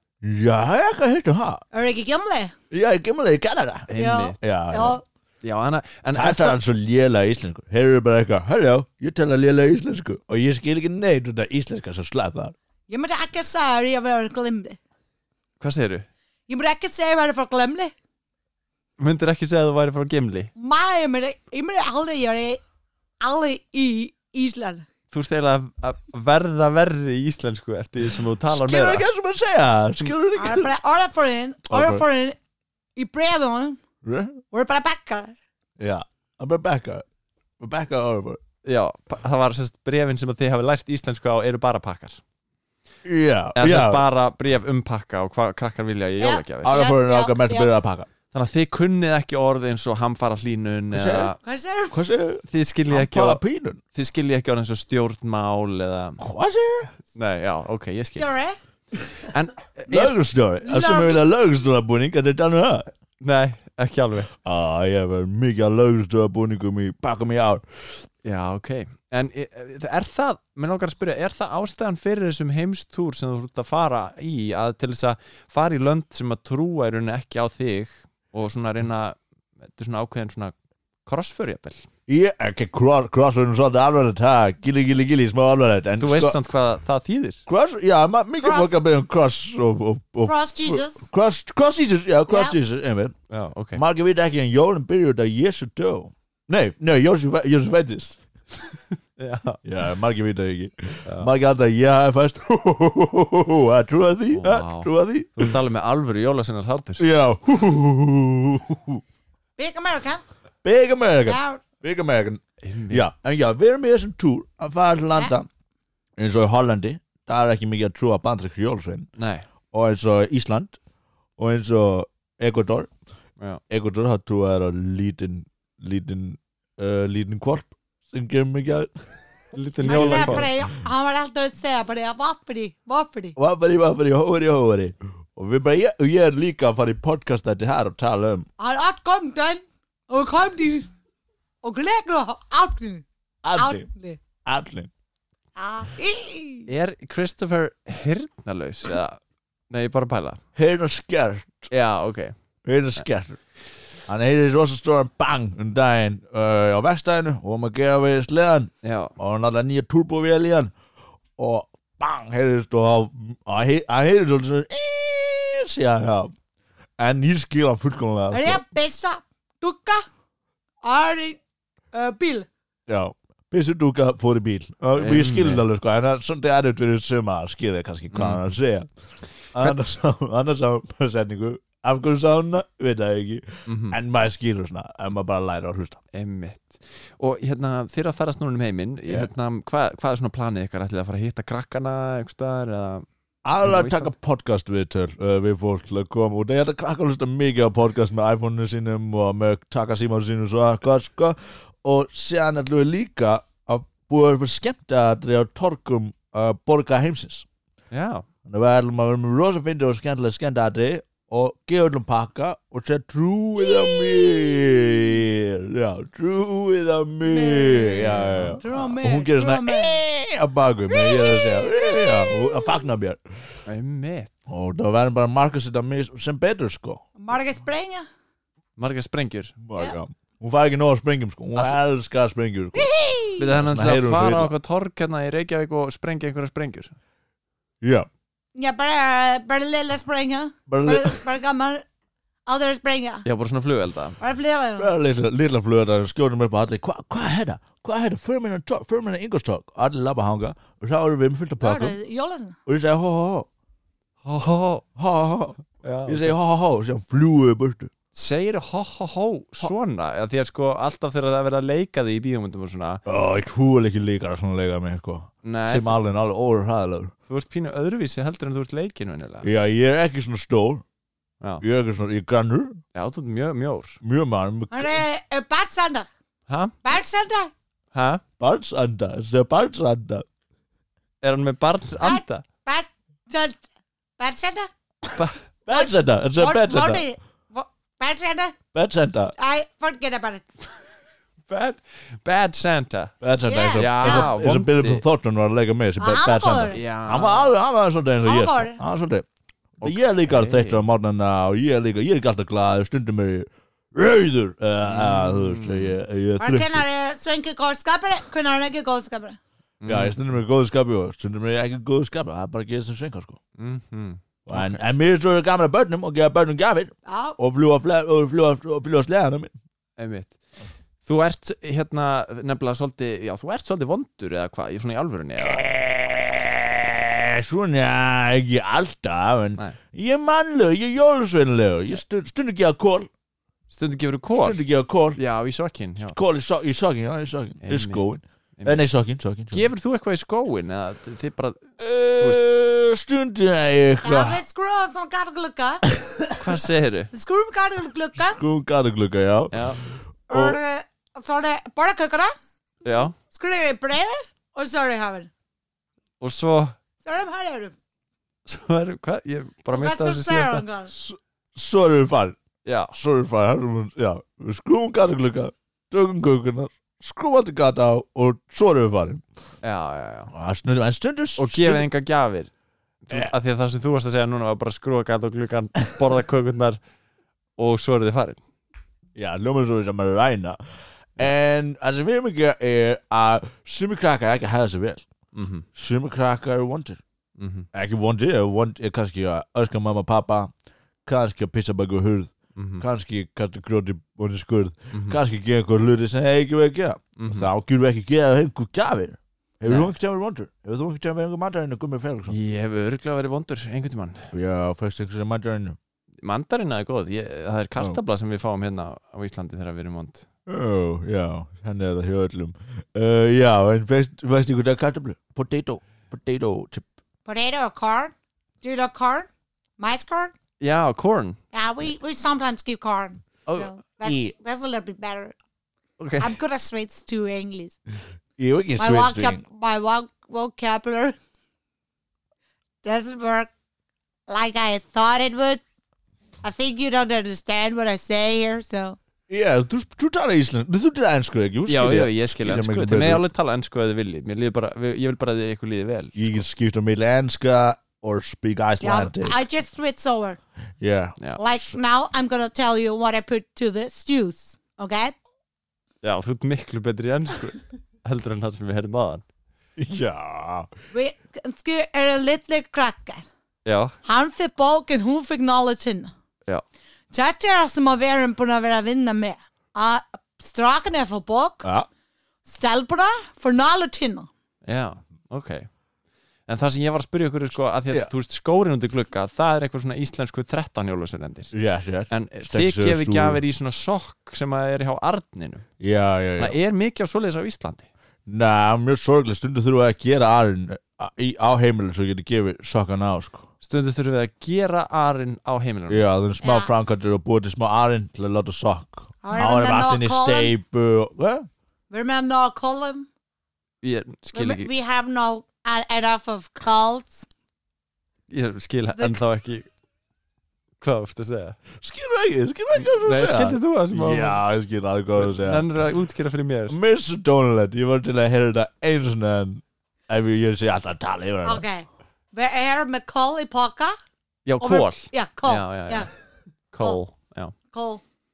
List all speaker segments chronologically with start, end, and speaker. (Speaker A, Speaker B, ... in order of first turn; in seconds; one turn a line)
Speaker A: 0.2-1.6
Speaker B: 1.7-2.5
Speaker A: 2.7-5.0
Speaker C: 3.9-4.4
Speaker B: 3.9-5.0
Speaker C: 5.4-6.6
Speaker A: 6.1-12.5
Speaker B: 12.9-14.8
Speaker C: 15.6-16.1
Speaker B: 16.5-17.9
Speaker C: 19.0-20.5
Speaker B: 20.6-22.6
Speaker B: 23.2-24.9
Speaker C: 25.1-29.1
Speaker A: 28.5-30.7
Speaker B: 30.3-32.4
Speaker A: 31.7-32.0
Speaker B: 33.0-33.8
Speaker A: 34.0-34.4
Speaker B: 34.5-35.3
Speaker A: 35.8-37.0
Speaker A: 37.6-38.4
Speaker C: 38.6-42.2
Speaker A: 43.0-44.0
Speaker C: 43.6-46.8
Speaker B: 46.2-47.7
Speaker A: 46.6-48.1
Speaker C: 48.3-51.4
Speaker A: 50.9-51.3
Speaker B: 51.4-52.0
Speaker A: 51.9-53.8
Speaker C: 52.5-53.4
Speaker C: 53.9-56.2
Speaker A: 56.2-57.0
Speaker C: 57.1-58.3
Speaker B: 58.1-58.6
Speaker C: 59.2-60.2
Speaker A: 59.9-62.9
Speaker B: 60.6-61.3
Speaker C: 63.2-64.3
Speaker A: 64.4-67.8
Speaker C: 68.2-80.5
Speaker C: 81.1-81.8
Speaker A: 82.1-86.4
Speaker C: 86.0-87.4
Speaker A: 87.5-93.1
Speaker B: 88.4-88.8
Speaker B: 90.2-91.1
Speaker B: 92.3-92.6
Speaker C: 93.3-93.8
Speaker A: 93.7-98.2
Speaker C: 99.2-99.6
Speaker A: 99.6-105.5
Speaker C: 104.3-107.1
Speaker A: 107.0-109.0
Speaker B: 109.6-110.2
Speaker A: 110.6-115.5
Speaker B: 111.2-111.6
Speaker C: 112.6-113.1
Speaker A: 116.2-119.1
Speaker C: 119.2-119.4
Speaker A: 119.7-120.8
Speaker A: 121.4-122.9
Speaker A: 123.7-128.9
Speaker C: 129.5-130.5
Speaker A: 129.8-130.7
Speaker B: 129.8-133.3
Speaker A: 133.3-138.4
Speaker B: 138.6-140.9
Speaker B: 141.6-144.2
Speaker A: 143.4-143.9
Speaker A: 144.4-144.9
Speaker B: 145.6-146.7
Speaker C: 146.7-149.2
Speaker C: 149.7-150.4
Speaker A: 150.6-151.7
Speaker C: 151.7-152.3
Speaker A: 152.6-153.4
Speaker A: 154.1-160.7
Speaker C: 158.8-159.1
Speaker A: 161.4-166.3
Speaker A: 167.0-168.6
Speaker B: 168.3-170.0
Speaker B: 170.8-171.4
Speaker B: 171.9-172.5
Speaker A: 172.9-178.9
Speaker C: 174.9-175.7
Speaker C: 178.1-178.4
Speaker A: 179.5-186.0
Speaker C: 183.7-184.0
Speaker C: 186.1-193.1
Speaker A: 193.4-207.4
Speaker C: 193.6-194.1
Speaker C: 207.9-208.2
Speaker A: 208.5-223.2
Speaker B: 213.6-215.0
Speaker B: 217.2-218.1
Speaker C: 218.0-218.6
Speaker B: 218.6-220.0
Speaker B: 220.9-222.8
Speaker C: 223.7-224.3
Speaker A: 224.5-227.0
Speaker B: 227.2-228.0
Speaker C: 228.8-229.6
Speaker A: 229.6-232.9
Speaker B: 232.8-233.5
Speaker C: 233.4-236.9
Speaker A: 233.5-234.5
Speaker A: 237.8-238.1
Speaker B: 238.5-241.8
Speaker A: 240.7-241.2
Speaker B: 242.4-243.3
Speaker C: 243.2-244.2
Speaker B: 244.2-244.9
Speaker A: 244.8-251.9
Speaker B: 251.6-252.6
Speaker A: 252.7-253.5
Speaker C: 254.2-254.8
Speaker A: 254.9-257.9
Speaker C: 255.8-256.3
Speaker C: 258.1-263.0
Speaker A: 263.1-267.1
Speaker C: 265.4-265.9
Speaker C: 267.3-269.5
Speaker A: 269.4-270.8
Speaker A: 271.6-272.8
Speaker C: 272.9-274.0
Speaker A: 274.0-275.0
Speaker B: 274.7-276.1
Speaker C: 276.5-276.8
Speaker B: 276.8-277.5
Speaker C: 277.9-278.2
Speaker A: 278.4-280.2
Speaker C: 281.2-282.4
Speaker B: 282.0-283.6
Speaker B: 284.2-284.7
Speaker C: 285.1-285.4
Speaker A: 285.6-287.0
Speaker B: 285.7-288.5
Speaker A: 288.7-289.3
Speaker B: 289.4-290.8
Speaker C: 291.5-293.1
Speaker A: 293.2-299.2
Speaker B: 293.4-294.4
Speaker C: 293.7-295.0
Speaker B: 296.0-296.8
Speaker C: 296.7-297.6
Speaker B: 298.2-298.8
Speaker C: 299.8-300.9
Speaker A: 299.8-306.8
Speaker C: 304.8-306.0
Speaker B: 306.4-309.4
Speaker C: 309.8-310.2
Speaker A: 309.9-313.4
Speaker C: 313.6-314.8
Speaker A: 314.5-319.5
Speaker B: 317.1-317.4
Speaker C: 320.0-320.4
Speaker C: 321.0-325.7
Speaker A: 325.4-333.1
Speaker C: 333.7-334.6
Speaker A: 334.4-335.2
Speaker C: 335.1-336.2
Speaker A: 336.0-339.7
Speaker C: 337.6-338.0
Speaker C: 338.6-338.9
Speaker C: 339.5-342.4
Speaker A: 341.8-344.4
Speaker B: 344.0-345.8
Speaker A: 346.0-346.3
Speaker C: 346.3-347.1
Speaker B: 347.1-348.4
Speaker A: 348.4-349.7
Speaker C: 349.5-349.8
Speaker A: 350.3-350.6
Speaker B: 350.3-352.3
Speaker C: 352.8-353.1
Speaker B: 353.3-355.3
Speaker C: 356.2-356.8
Speaker B: 357.0-357.8
Speaker C: 358.5-360.6
Speaker B: 359.7-360.9
Speaker A: 360.9-362.4
Speaker C: 362.6-362.9
Speaker A: 362.9-369.2
Speaker C: 369.6-370.3
Speaker A: 370.3-371.9
Speaker C: 371.4-372.5
Speaker C: 373.1-376.8
Speaker C: 377.6-378.4
Speaker A: 379.1-380.6
Speaker A: 381.2-385.0
Speaker C: 385.3-385.6
Speaker A: 385.8-387.0
Speaker C: 387.4-387.6
Speaker A: 387.7-390.5
Speaker A: 391.1-402.4
Speaker C: 392.6-392.9
Speaker C: 394.9-395.2
Speaker C: 397.2-397.5
Speaker C: 399.6-399.9
Speaker C: 402.3-404.3
Speaker A: 404.3-405.8
Speaker C: 406.2-410.2
Speaker A: 410.5-416.9
Speaker B: 417.2-420.3
Speaker C: 420.6-421.4
Speaker B: 421.5-425.4
Speaker A: 424.0-424.3
Speaker C: 426.0-426.4
Speaker B: 426.2-427.8
Speaker A: 428.4-429.4
Speaker B: 428.8-431.1
Speaker B: 432.8-433.5
Speaker B: 434.3-435.6
Speaker B: 436.4-439.0
Speaker A: 439.3-443.2
Speaker C: 441.7-446.4
Speaker A: 446.1-449.4
Speaker B: 448.8-450.4
Speaker A: 450.8-451.8
Speaker B: 451.4-455.1
Speaker C: 456.0-459.2
Speaker A: 459.8-460.7
Speaker B: 460.9-463.2
Speaker C: 463.6-464.0
Speaker B: 464.0-466.1
Speaker B: 467.1-471.7
Speaker A: 471.6-471.9
Speaker B: 472.4-474.3
Speaker C: 474.6-475.7
Speaker C: 476.5-481.5
Speaker A: 481.5-483.4
Speaker C: 482.1-485.6
Speaker A: 485.8-486.6
Speaker C: 486.4-487.9
Speaker A: 488.3-493.4
Speaker C: 493.6-496.1
Speaker A: 495.9-501.5
Speaker B: 496.4-496.7
Speaker B: 499.2-500.6
Speaker B: 501.9-503.1
Speaker C: 503.8-504.7
Speaker B: 504.3-507.3
Speaker C: 508.3-509.7
Speaker B: 509.0-509.2
Speaker C: 510.8-511.6
Speaker A: 511.8-515.6
Speaker C: 512.8-514.4
Speaker C: 515.2-516.8
Speaker A: 516.7-521.6
Speaker B: 521.4-523.9
Speaker C: 524.5-526.1
Speaker B: 524.6-526.1
Speaker C: 526.7-527.5
Speaker B: 527.7-528.0